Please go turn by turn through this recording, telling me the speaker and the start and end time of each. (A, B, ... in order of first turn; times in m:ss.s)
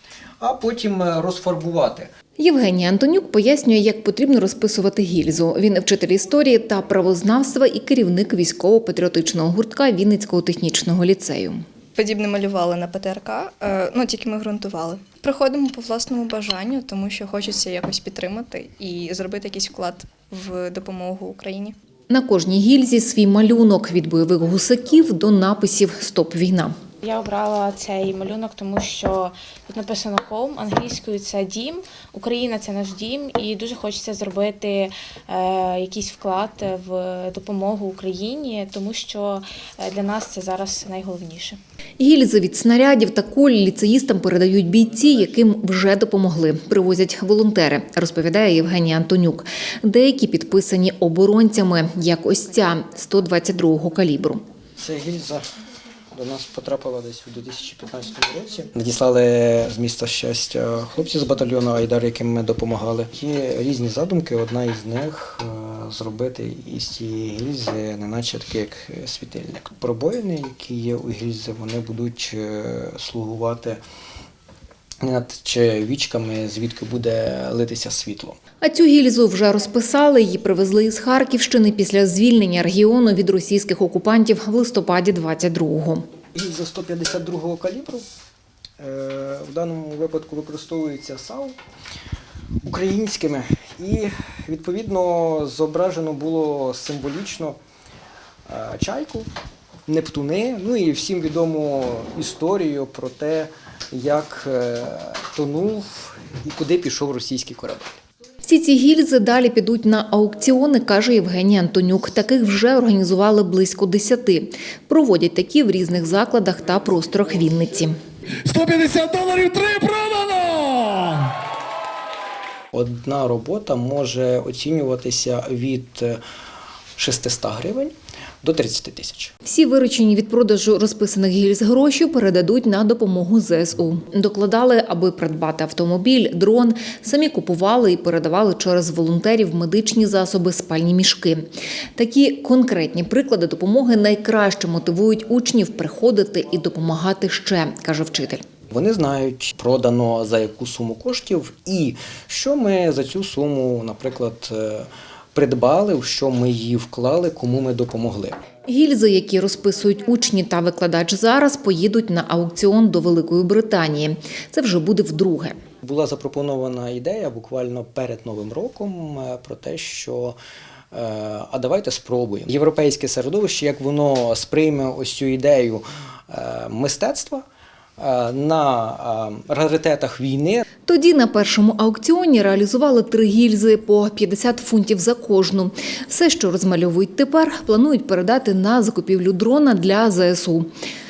0:00.4-0:02.1 A
0:02.4-0:11.6 B
0:11.9-0:21.8 C
0:22.1-0:26.7 B
0:27.0-0:41.6 D
0:42.0-0:54.4 B
0:54.8-0:55.4 A
0:56.1-1:13.8 A
1:15.0-1:18.4 A
1:18.6-1:26.0 B
1:26.3-1:28.0 A
1:28.8-1:31.5 A
1:32.6-1:37.6 A
1:38.5-1:39.3 A
1:39.9-1:48.0 A
1:48.4-1:58.0 B
1:58.4-2:01.3 E
2:02.7-2:06.2 A
2:07.0-2:09.3 A
2:09.4-2:28.4 B
2:28.7-2:38.4 A
2:38.6-2:45.6 B
2:45.8-2:50.4 A
2:50.9-2:57.4 A
2:58.0-3:00.6 A
3:00.8-3:10.7 B